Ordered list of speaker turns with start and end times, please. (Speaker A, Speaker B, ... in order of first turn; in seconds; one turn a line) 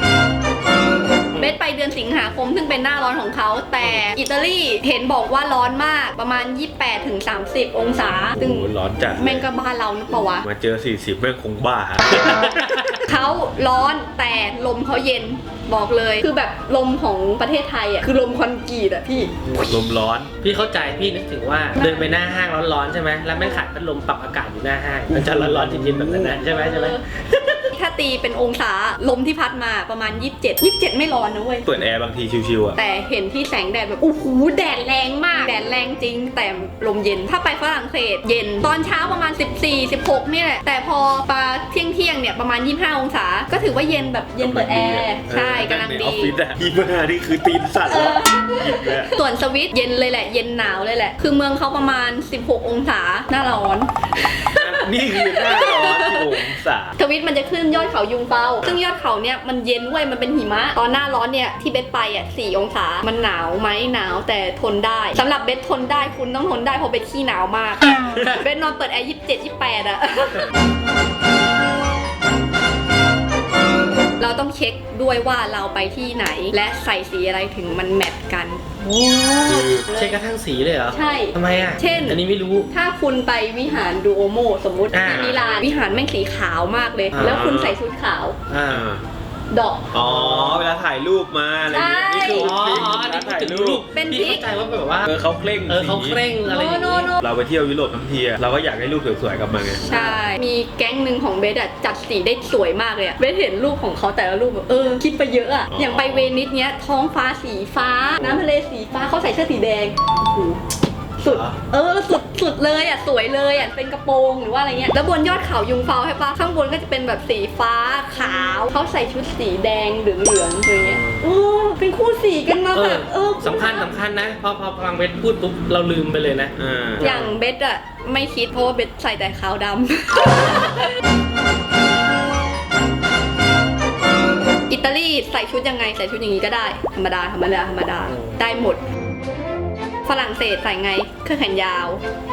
Speaker A: 1.4-10.5
Speaker B: 8.3-9.5
Speaker B: 10.4-12.8
Speaker C: 12.1-13.0
Speaker A: 13.0-19.4
Speaker C: 19.4-19.7
Speaker B: 19.6-20.3
Speaker C: 20.4-27.0
Speaker A: 21.8-22.1
Speaker B: 25.1-26.4
Speaker A: 26.5-31.7
Speaker B: 31.7-32.8
Speaker A: 32.8-46.3
Speaker B: 44.4-49.1
Speaker A: 47.9-70.5
Speaker B: 54.5-57.0
Speaker A: 74.2-78.6
Speaker C: 78.8-82.7
Speaker B: 79.5-79.9
Speaker A: 79.9-80.2
Speaker A: 80.9-88.4
Speaker C: 84.9-85.3
Speaker B: 85.0-85.4
Speaker C: 87.2-87.4
Speaker B: 87.2-87.8
Speaker C: 88.5-88.9
Speaker B: 88.7-89.0
Speaker A: 89.5-89.9
Speaker B: 89.9-93.8
Speaker C: 90.0-90.7
Speaker A: 91.7-92.5
Speaker C: 92.3-95.1
Speaker A: 93.9-94.5
Speaker B: 95.0-96.2
Speaker C: 95.7-97.1
Speaker A: 96.5-97.2
Speaker B: 97.2-99.8
Speaker A: 99.8-110.6
Speaker C: 99.9-100.2
Speaker B: 105.7-106.3
Speaker A: 111.2-123.9
Speaker C: 111.3-111.5
Speaker C: 120.8-121.3
Speaker C: 122.7-127.4
Speaker B: 126.6-127.1
Speaker A: 127.0-131.0
Speaker A: 134.7-138.8
Speaker C: 138.1-138.4
Speaker A: 140.1-142.0